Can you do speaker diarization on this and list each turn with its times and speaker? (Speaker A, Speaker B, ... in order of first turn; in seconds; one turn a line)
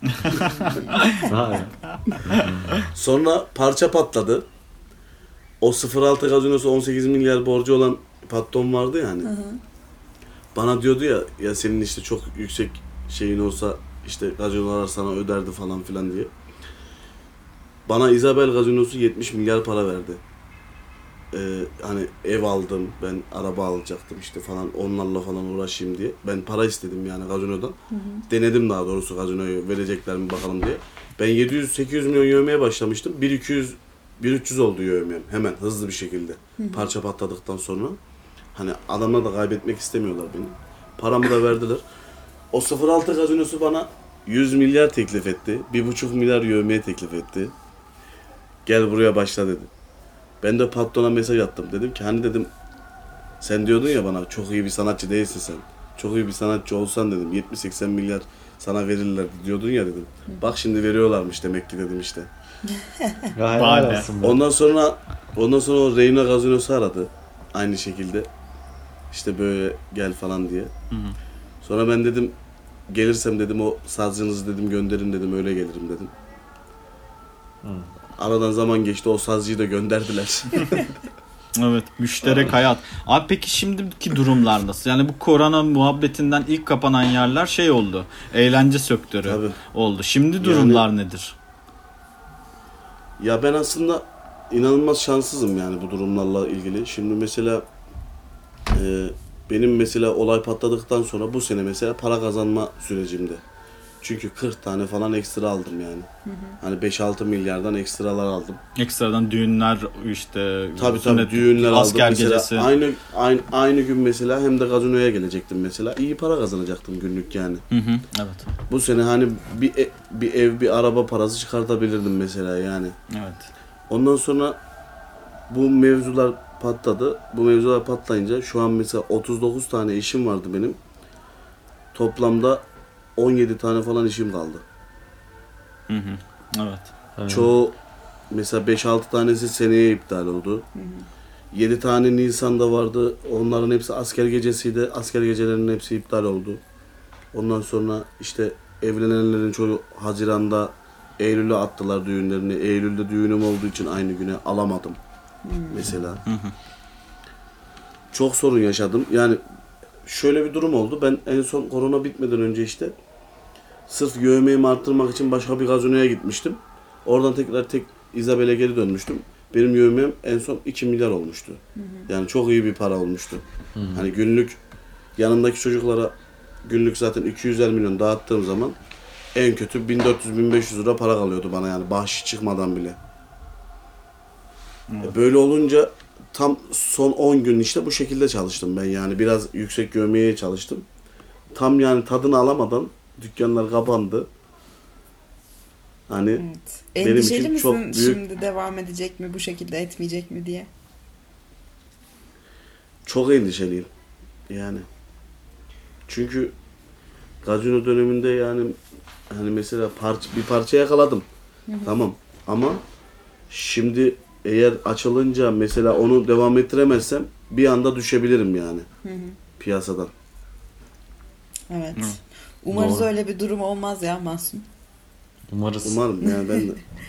Speaker A: 0.2-1.3
Speaker B: 1.2-2.9
Speaker C: 2.9-4.4
Speaker C: 5.6-9.3
Speaker D: 9.2-9.6
Speaker C: 10.5-16.3
Speaker C: 17.9-20.2
Speaker C: 21.3-27.8
Speaker D: 27.9-28.2
Speaker C: 28.3-38.0
Speaker D: 36.6-36.9
Speaker C: 38.5-41.8
Speaker C: 42.5-47.5
Speaker C: 48.6-49.7
Speaker C: 50.4-52.5
Speaker C: 53.4-62.3
Speaker D: 62.7-63.3
Speaker B: 63.3-64.4
Speaker A: 63.5-64.0
Speaker C: 64.2-68.3
Speaker C: 69.1-70.7
Speaker C: 71.6-72.3
Speaker C: 72.9-76.1
Speaker B: 77.6-77.9
Speaker C: 78.2-80.9
Speaker A: 81.5-91.3
Speaker C: 89.2-89.5
Speaker C: 90.4-90.8
Speaker C: 93.2-97.6
Speaker C: 98.7-103.4
Speaker C: 104.0-106.1
Speaker D: 106.2-106.6
Speaker C: 106.6-108.6
Speaker A: 108.8-112.7
Speaker C: 110.8-117.6
Speaker A: 117.7-118.5
Speaker C: 118.7-122.9
Speaker A: 123.1-123.5
Speaker C: 123.9-124.6
Speaker C: 125.5-130.8
Speaker C: 131.9-132.6
Speaker C: 133.2-134.6
Speaker A: 135.9-136.9
Speaker B: 137.2-137.6
Speaker C: 137.3-137.7
Speaker C: 138.3-140.7
Speaker D: 140.7-141.0
Speaker C: 141.5-146.6
Speaker C: 147.3-155.0
Speaker D: 155.4-155.9
Speaker C: 155.7-156.2
Speaker A: 156.2-156.5
Speaker C: 158.1-159.4
Speaker C: 160.1-162.9
Speaker C: 163.9-173.4
Speaker D: 171.8-172.1
Speaker B: 173.8-174.1
Speaker C: 173.9-174.6
Speaker C: 175.2-176.1
Speaker C: 176.6-178.8
Speaker C: 179.3-183.0
Speaker A: 184.9-185.2
Speaker C: 185.0-190.8
Speaker C: 191.5-194.3
Speaker C: 196.1-196.4
Speaker D: 196.4-200.7
Speaker C: 197.0-198.2
Speaker C: 203.1-203.9
Speaker C: 204.5-204.8
Speaker C: 206.1-206.5
Speaker C: 207.4-208.8
Speaker C: 209.3-211.2
Speaker D: 211.7-211.9
Speaker C: 211.8-212.8
Speaker C: 213.5-218.9
Speaker D: 219.0-219.4
Speaker C: 219.6-220.1
Speaker D: 221.7-224.7
Speaker B: 222.7-223.1
Speaker B: 225.5-226.0
Speaker C: 225.8-226.8